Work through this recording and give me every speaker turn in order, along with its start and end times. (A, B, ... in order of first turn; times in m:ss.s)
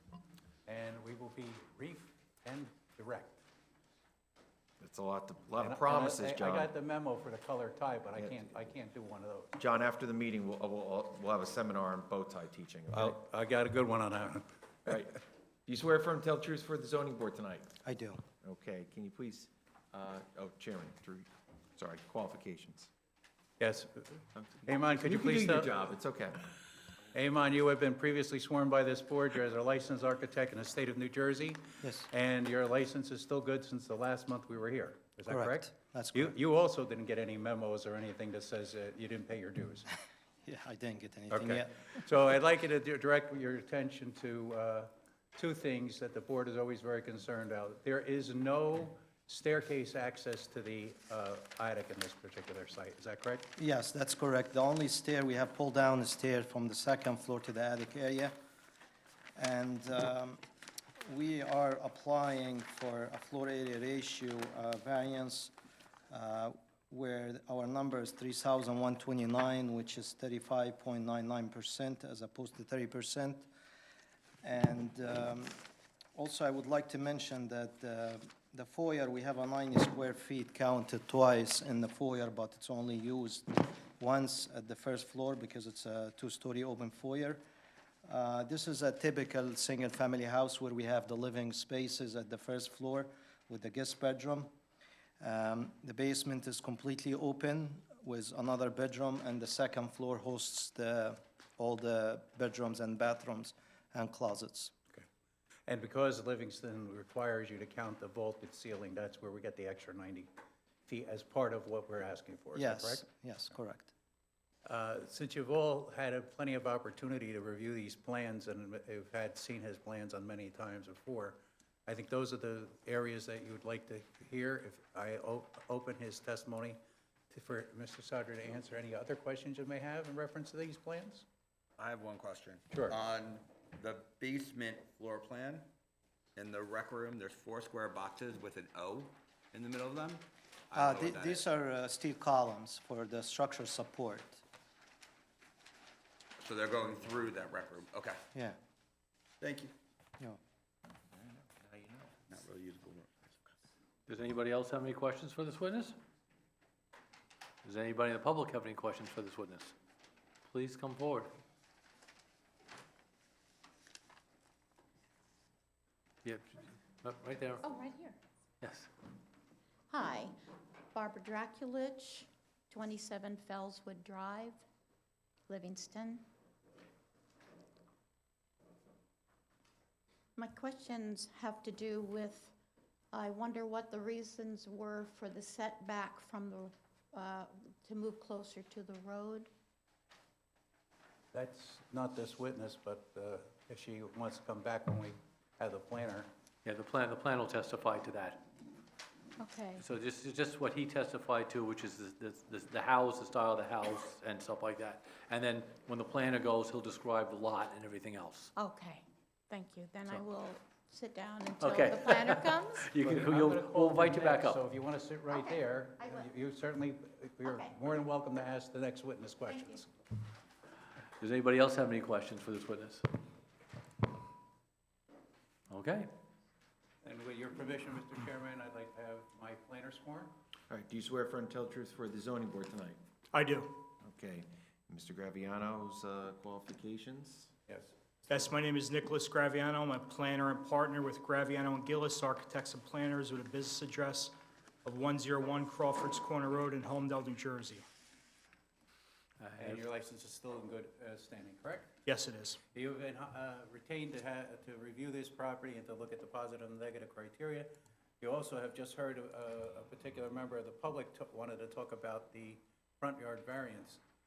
0:00.6-0:03.4 A
0:04.8-0:06.7 B
0:05.6-0:09.5 A
0:08.1-0:08.5 B
0:09.6-0:13.2 B
0:12.9-0:14.5 A
0:14.9-0:17.7 B
0:17.8-0:18.2 C
0:18.4-0:22.9 B
0:23.6-0:25.7 A
0:24.3-0:26.4 B
0:27.1-0:39.9 A
0:31.8-0:32.1 C
0:35.3-0:36.3 C
0:40.4-0:41.8 C
0:41.3-0:53.5 A
0:53.6-0:58.3 C
0:59.4-1:00.4 C
1:01.0-1:05.5 C
1:06.1-1:13.5 C
1:14.4-1:15.6 C
1:16.1-1:27.4 C
1:28.0-1:34.5 C
1:35.2-1:44.7 C
1:45.7-1:50.3 A
1:50.9-1:53.0 A
1:52.5-1:53.9 C
1:54.6-2:06.8 A
2:07.3-2:11.2 A
2:11.8-2:15.6 D
2:12.7-2:13.0 A
2:16.3-2:21.4 D
2:20.7-2:24.4 C
2:26.4-2:28.2 D
2:29.4-2:29.7 D
2:31.2-2:31.9 B
2:31.8-2:33.6 D
2:34.1-2:36.0 E
2:37.6-2:39.7 E
2:40.5-2:41.3 E
2:47.0-2:47.6 E
2:47.6-2:48.2 F
2:48.6-2:48.9 E
2:49.9-2:50.3 F
2:50.9-2:54.6 F
2:55.5-2:56.2 F
3:00.4-3:02.5 F
3:03.1-3:09.5 F
3:11.3-3:16.3 A
3:16.6-3:18.4 E
3:19.4-3:19.8 F
3:19.8-3:28.5 E
3:28.6-3:32.9 F
3:31.6-3:34.6 E
3:33.0-3:39.9 A
3:35.3-3:36.3 F
3:37.4-3:37.7 F
3:39.5-3:39.8 F
3:41.2-3:43.0 E
3:45.7-3:46.1 E
3:47.0-3:50.3 A
3:50.7-3:53.0 B
3:53.3-3:53.8 G
3:54.0-3:57.5 B
3:57.7-3:57.9 A
3:58.3-4:04.3 G
4:04.8-4:07.8 G
4:09.4-4:09.8 E
4:09.6-4:11.9 A
4:12.0-4:12.6 G
4:12.7-4:24.0 A